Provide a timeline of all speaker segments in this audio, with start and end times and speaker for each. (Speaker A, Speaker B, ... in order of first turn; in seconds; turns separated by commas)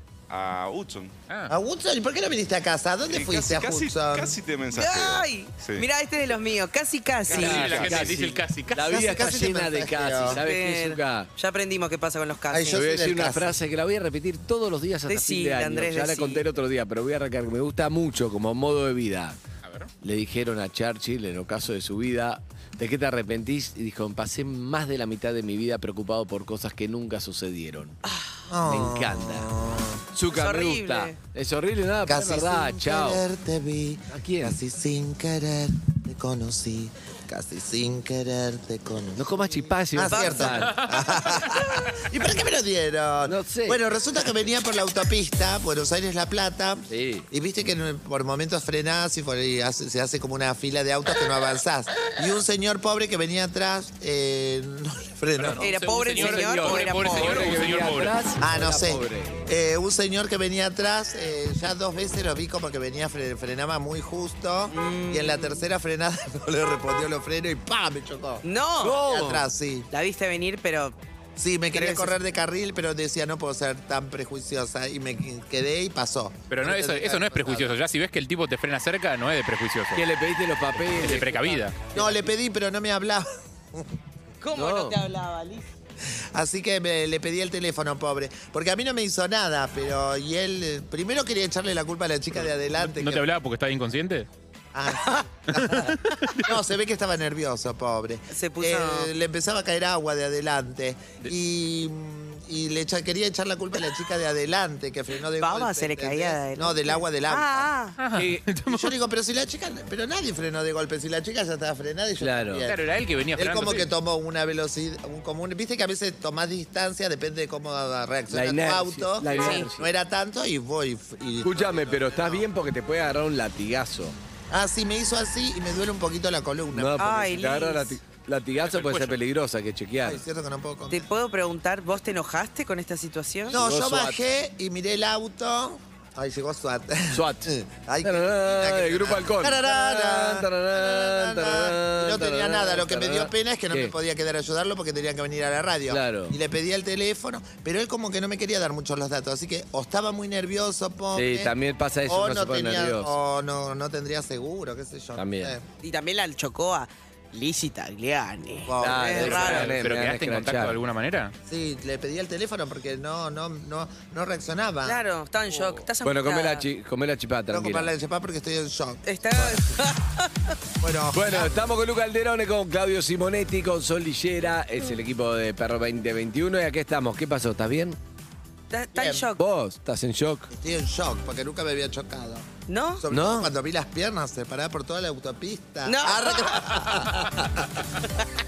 Speaker A: 0.3-1.1, Speaker B: 1.3-1.5, Speaker C: 1.5-4.3, Speaker A: 3.1-5.9, Speaker D: 4.7-7.7, Speaker A: 7.3-8.2, Speaker B: 7.3-8.8, Speaker E: 7.3-11.3, Speaker C: 8.8-10.4, Speaker D: 10.4-12.8, Speaker C: 12.5-13.6, Speaker E: 12.7-19.4, Speaker D: 15.1-16.4, Speaker B: 19.6-19.9, Speaker E: 20.0-27.9, Speaker D: 28.1-28.4, Speaker C: 28.5-30.0, Speaker E: 28.6-29.5, Speaker E: 30.1-33.2, Speaker D: 30.3-31.2, Speaker C: 32.1-55.6, Speaker E: 34.1-34.6, Speaker E: 39.1-40.8, Speaker D: 40.0-40.6, Speaker E: 43.2-43.8, Speaker E: 46.9-47.3, Speaker B: 55.4-58.2, Speaker D: 55.6-57.5, Speaker E: 56.1-59.4, Speaker C: 58.4-68.4, Speaker D: 64.7-65.7, Speaker D: 68.4-69.0, Speaker E: 68.8-69.5, Speaker C: 69.0-69.9, Speaker D: 69.9-70.9, Speaker C: 71.4-77.8, Speaker D: 71.7-72.2, Speaker B: 76.5-80.1, Speaker E: 79.9-82.3, Speaker B: 81.0-81.8, Speaker C: 81.9-83.9, Speaker D: 84.4-85.7, Speaker E: 84.5-85.0, Speaker C: 86.3-93.2, Speaker B: 92.8-94.3, Speaker C: 94.7-107.7, Speaker B: 95.5-96.5, Speaker D: 98.3-99.1, Speaker D: 105.4-108.0, Speaker B: 108.0-109.0, Speaker E: 108.1-108.5, Speaker C: 108.7-112.8, Speaker E: 112.2-112.7, Speaker B: 112.7-113.9, Speaker C: 113.3-122.4, Speaker E: 118.3-119.9, Speaker D: 119.3-119.7, Speaker E: 121.4-124.2, Speaker C: 124.5-127.0, Speaker E: 126.7-130.2, Speaker D: 127.0-128.0, Speaker B: 128.6-129.2, Speaker C: 130.0-131.1, Speaker D: 130.9-133.6, Speaker E: 133.5-134.2, Speaker C: 133.5-151.5, Speaker E: 137.1-143.9, Speaker E: 145.9-146.4, Speaker E: 151.1-153.2, Speaker C: 152.1-155.6, Speaker E: 155.2-155.6, Speaker D: 155.8-159.7, Speaker C: 158.7-159.6, Speaker E: 158.8-160.8, Speaker B: 159.3-161.3, Speaker C: 161.5-165.0, Speaker D: 164.8-166.6, Speaker E: 166.0-167.9, Speaker C: 167.5-169.7, Speaker D: 169.0-170.5, Speaker C: 170.8-171.5, Speaker E: 171.1-178.0, Speaker D: 178.7-179.4, Speaker C: 178.9-179.3, Speaker E: 179.4-180.5, Speaker C: 180.5-182.4, Speaker D: 182.7-183.0, Speaker C: 183.0-188.0, Speaker E: 183.1-183.5, Speaker D: 185.8-186.8